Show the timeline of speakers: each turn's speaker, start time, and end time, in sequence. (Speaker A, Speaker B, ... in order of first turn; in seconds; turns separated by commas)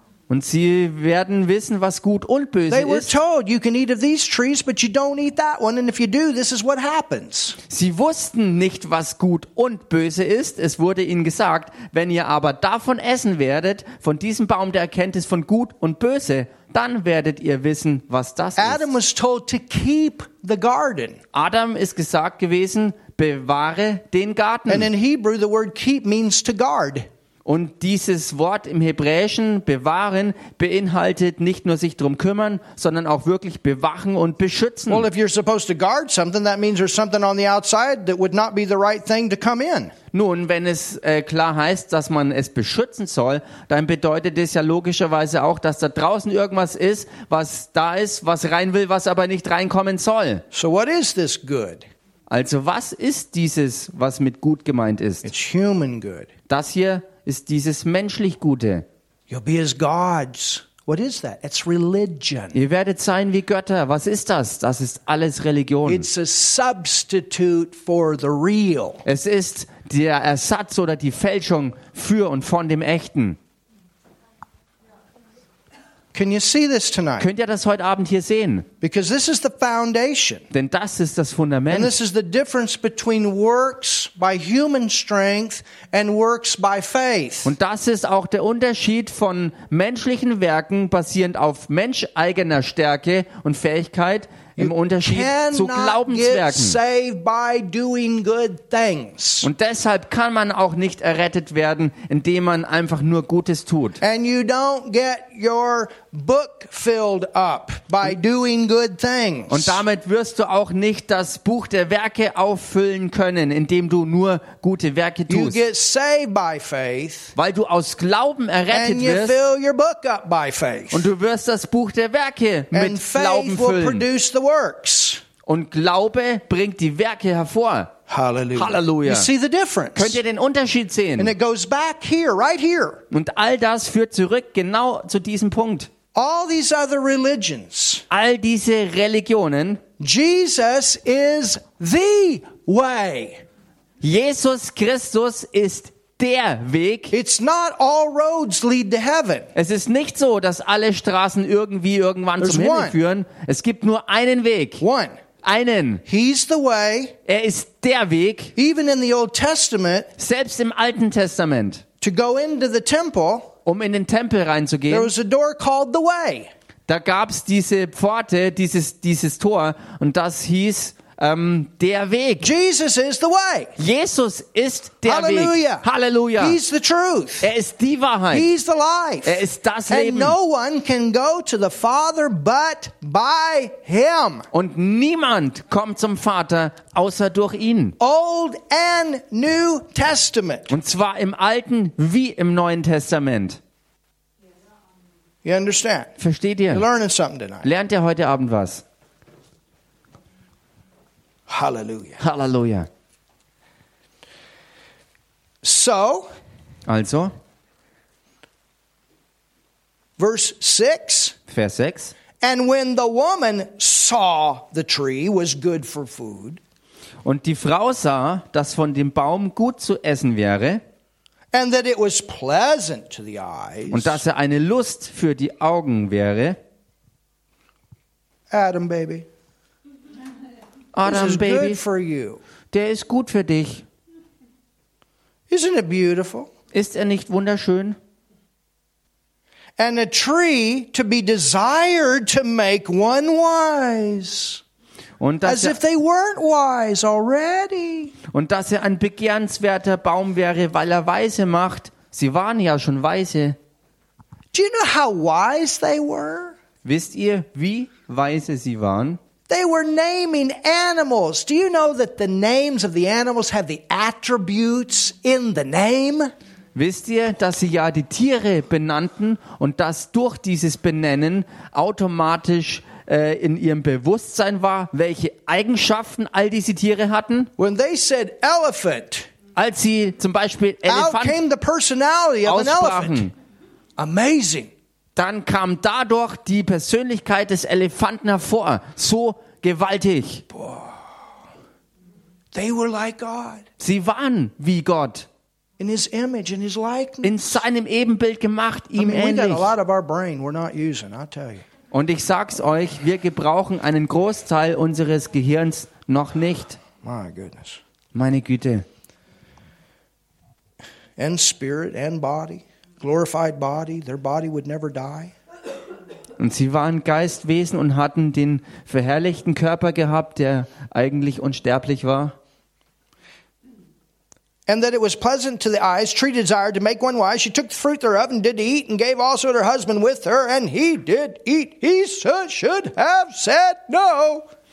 Speaker A: 0.3-3.1, Speaker B: 2.7-7.6, Speaker A: 7.7-18.9, Speaker B: 18.6-21.2, Speaker A: 21.3-24.9, Speaker B: 24.7-27.1, Speaker A: 27.4-35.1, Speaker B: 34.9-39.9, Speaker A: 40.1-50.4, Speaker B: 50.5-51.9, Speaker A: 52.3-55.3, Speaker B: 55.2-56.3, Speaker A: 56.5-58.9, Speaker B: 59.3-62.6, Speaker A: 62.5-66.1, Speaker B: 65.8-69.0, Speaker A: 69.0-73.4, Speaker B: 76.1-77.3, Speaker A: 77.2-78.7, Speaker B: 78.8-80.5, Speaker A: 80.5-81.9, Speaker B: 81.7-87.5, Speaker A: 87.4-96.8, Speaker B: 94.6-99.5, Speaker A: 99.4-104.0, Speaker B: 104.0-109.8, Speaker A: 109.5-115.6, Speaker B: 115.3-117.3, Speaker A: 117.3-119.4, Speaker B: 118.7-121.1, Speaker A: 120.9-124.0, Speaker B: 122.7-125.2, Speaker A: 125.5-127.9, Speaker B: 128.1-130.2, Speaker A: 128.5-129.3, Speaker A: 129.9-131.3, Speaker B: 131.2-133.0, Speaker A: 133.1-135.9, Speaker B: 136.1-138.0, Speaker A: 138.1-139.8, Speaker B: 140.0-143.4, Speaker A: 144.0-147.1, Speaker B: 147.1-149.5, Speaker A: 149.5-154.8, Speaker B: 152.4-153.0, Speaker B: 154.8-155.2, Speaker A: 155.4-156.0, Speaker B: 156.1-157.2, Speaker A: 157.3-158.5, Speaker B: 158.6-160.1, Speaker A: 160.2-161.8, Speaker B: 162.0-163.5, Speaker A: 163.7-165.1, Speaker B: 164.9-166.5, Speaker A: 166.9-172.5, Speaker B: 172.4-173.7, Speaker A: 173.8-176.6, Speaker B: 175.0-175.8, Speaker B: 176.4-177.5, Speaker A: 177.4-178.5, Speaker B: 178.3-184.5, Speaker A: 179.2-180.3, Speaker A: 184.5-187.9, Speaker B: 188.0-190.7, Speaker A: 190.7-193.6, Speaker B: 195.4-196.1, Speaker A: 196.2-196.8, Speaker B: 196.7-197.7, Speaker A: 197.6-198.8, Speaker B: 201.5-202.2, Speaker A: 202.2-202.9, Speaker B: 205.6-206.3, Speaker A: 206.9-207.3, Speaker B: 210.2-211.3, Speaker A: 211.5-212.1, Speaker B: 212.4-216.6, Speaker A: 217.2-220.8, Speaker B: 221.5-224.2, Speaker A: 223.9-226.6, Speaker B: 228.5-229.2, Speaker A: 230.9-231.8, Speaker B: 231.0-232.4, Speaker A: 232.7-233.8, Speaker B: 235.5-236.5, Speaker A: 236.7-238.0, Speaker B: 239.8-244.6, Speaker A: 245.2-245.8, Speaker B: 245.4-248.1, Speaker A: 248.3-253.6, Speaker B: 254.5-256.6, Speaker A: 256.8-259.2, Speaker B: 259.5-266.3, Speaker A: 266.7-277.5, Speaker B: 277.6-279.3, Speaker A: 279.5-281.4, Speaker B: 280.9-283.3, Speaker A: 282.4-283.3, Speaker B: 284.0-284.7, Speaker A: 285.1-290.4, Speaker B: 290.5-291.2, Speaker B: 292.5-293.6, Speaker A: 293.8-295.3, Speaker B: 295.8-297.6, Speaker A: 297.2-299.7, Speaker B: 298.9-301.6, Speaker A: 301.9-306.8, Speaker B: 307.0-307.8, Speaker A: 308.1-308.9, Speaker B: 311.2-315.3, Speaker A: 316.4-322.4, Speaker B: 324.7-334.4